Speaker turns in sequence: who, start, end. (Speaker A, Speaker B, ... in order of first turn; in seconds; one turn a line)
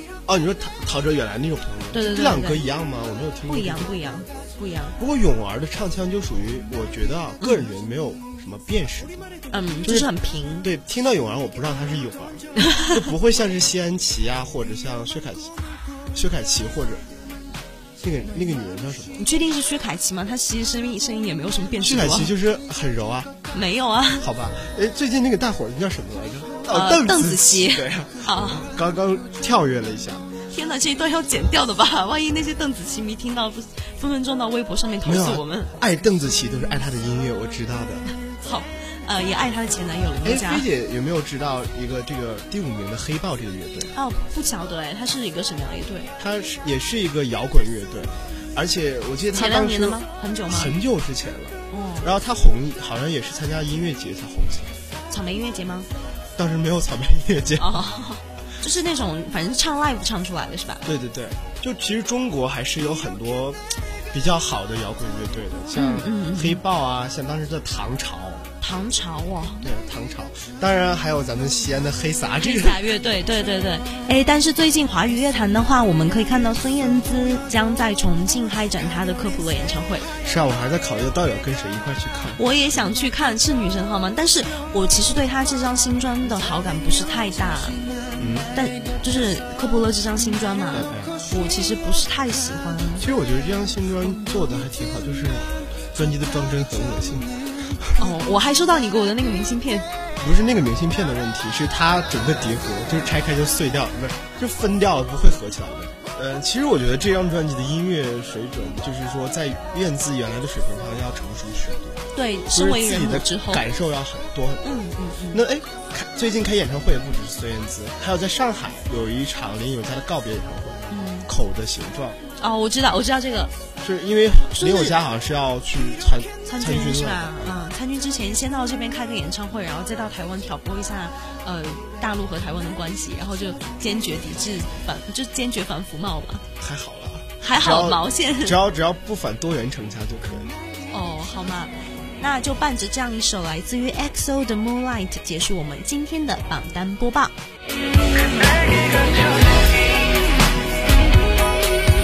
Speaker A: 0.2-4.0
Speaker B: 1.9-2.6
Speaker B: 3.5-5.0
Speaker A: 5.0-9.3
Speaker B: 9.5-10.7
Speaker A: 9.8-10.1
Speaker A: 10.6-15.5
Speaker B: 12.7-13.0
Speaker A: 16.1-17.0
Speaker A: 18.0-19.2
Speaker B: 19.2-22.3
Speaker A: 21.8-23.3
Speaker B: 23.5-24.3
Speaker A: 24.2-30.2
Speaker B: 26.7-28.6
Speaker B: 30.5-35.7
Speaker A: 35.0-38.0
Speaker B: 38.4-40.6
Speaker A: 40.2-43.9
Speaker B: 43.9-46.1
Speaker A: 46.2-54.7
Speaker B: 49.3-50.7
Speaker B: 51.7-52.1
Speaker B: 55.1-55.9
Speaker A: 56.4-57.8
Speaker B: 57.6-60.8
Speaker A: 60.8-68.5
Speaker B: 65.7-66.6
Speaker B: 68.6-69.7
Speaker A: 69.6-72.8
Speaker B: 72.4-80.1
Speaker A: 80.2-82.4
Speaker B: 82.3-87.8
Speaker A: 88.2-88.5
Speaker B: 88.5-93.1
Speaker A: 90.7-91.2
Speaker A: 93.0-97.8
Speaker B: 98.0-99.9
Speaker A: 100.2-112.0
Speaker B: 112.1-113.6
Speaker A: 112.5-114.6
Speaker B: 114.6-115.4
Speaker A: 115.3-122.2
Speaker B: 120.9-121.3
Speaker B: 122.4-123.5
Speaker A: 123.8-127.6
Speaker B: 124.5-124.9
Speaker B: 126.5-136.4
Speaker A: 136.6-140.5
Speaker B: 137.4-138.6
Speaker B: 140.9-147.3